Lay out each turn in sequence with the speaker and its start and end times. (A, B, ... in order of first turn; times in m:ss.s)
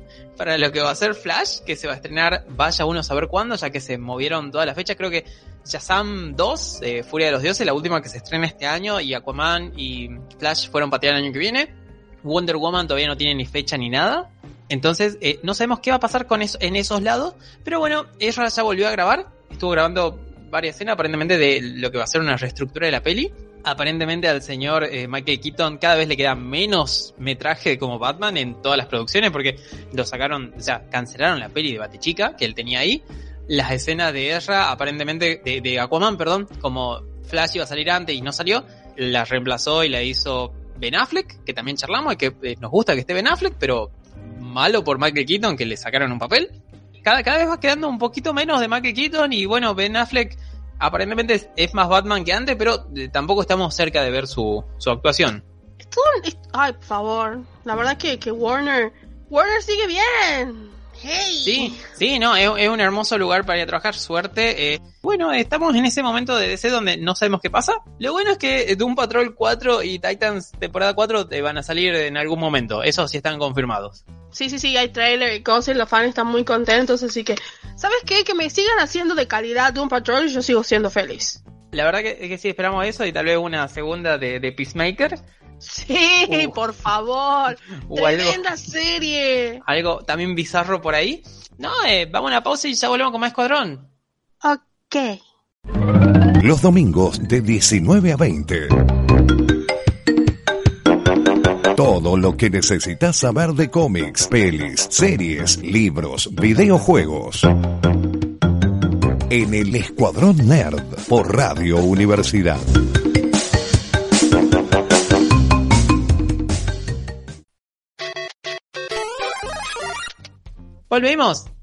0:00.4-0:55.4 A
0:55.8-1:01.9 B
1:01.5-1:14.0 A
1:14.3-1:21.4 B
1:21.7-1:25.2 A
1:25.6-1:29.6 B
1:26.3-1:26.6 A
1:27.9-1:28.4 A
1:29.6-1:33.9 A
1:34.4-1:35.2 B
1:36.4-1:38.7 C
1:41.8-1:47.5 C
1:49.3-1:52.6 C
2:00.9-2:01.5 A